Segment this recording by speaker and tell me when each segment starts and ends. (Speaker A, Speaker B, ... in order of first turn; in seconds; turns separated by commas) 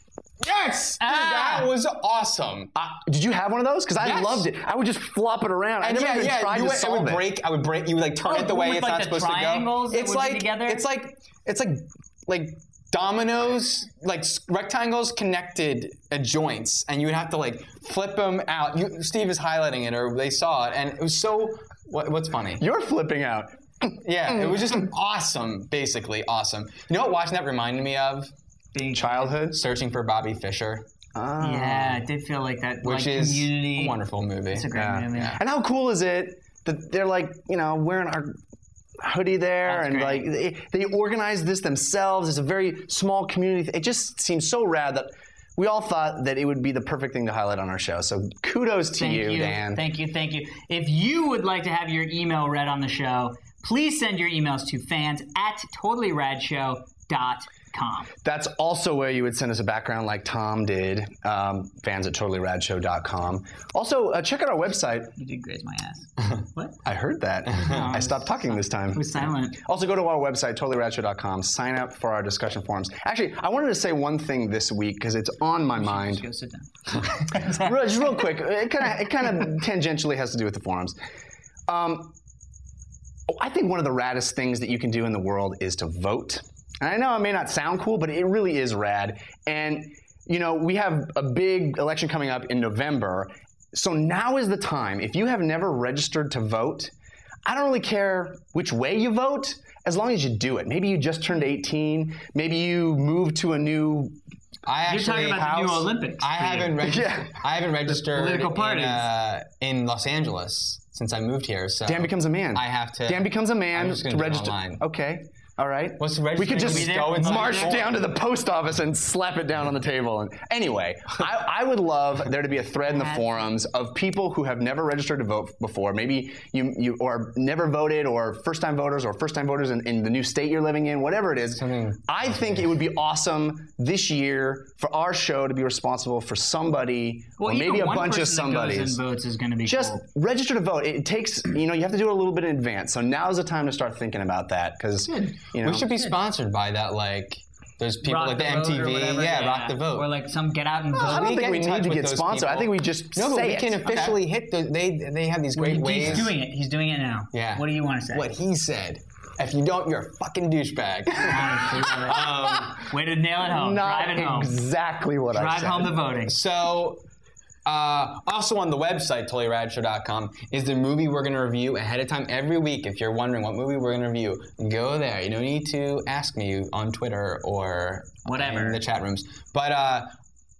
Speaker A: 0.4-2.7, Speaker B: 1.0-1.7, Speaker C: 2.7-7.3, Speaker A: 4.0-4.5, Speaker A: 5.8-22.6, Speaker B: 8.2-10.8, Speaker C: 22.6-24.9, Speaker A: 24.0-28.3, Speaker B: 28.7-29.3, Speaker C: 28.9-29.6, Speaker A: 29.5-30.9, Speaker C: 31.1-32.0, Speaker B: 31.4-34.0, Speaker A: 32.8-35.4, Speaker B: 34.5-35.4, Speaker C: 34.7-38.4, Speaker C: 39.0-49.8, Speaker B: 39.7-40.3, Speaker B: 49.0-58.1, Speaker C: 58.2-65.1, Speaker B: 65.2-66.8, Speaker C: 66.8-76.2, Speaker A: 67.5-67.8, Speaker B: 67.5-69.6, Speaker B: 75.8-78.1, Speaker C: 77.3-81.0, Speaker C: 81.7-82.1, Speaker C: 83.3-96.9, Speaker C: 97.5-104.2, Speaker A: 104.7-114.8, Speaker B: 104.9-106.8, Speaker C: 106.8-107.5, Speaker B: 107.9-109.0, Speaker C: 111.8-139.0, Speaker A: 116.0-118.0, Speaker B: 116.5-117.9, Speaker B: 122.9-123.3, Speaker A: 131.6-132.7, Speaker B: 137.4-140.0, Speaker C: 139.6-145.9, Speaker B: 145.1-146.1, Speaker A: 145.6-150.1, Speaker B: 148.0-151.3, Speaker C: 150.9-154.1, Speaker A: 151.0-156.3, Speaker C: 155.6-156.3, Speaker B: 155.8-158.3, Speaker A: 157.3-162.9, Speaker B: 161.2-164.6, Speaker C: 162.3-162.7, Speaker C: 163.4-166.0, Speaker B: 165.3-166.3, Speaker A: 166.3-167.0, Speaker A: 167.6-180.1, Speaker B: 178.3-178.8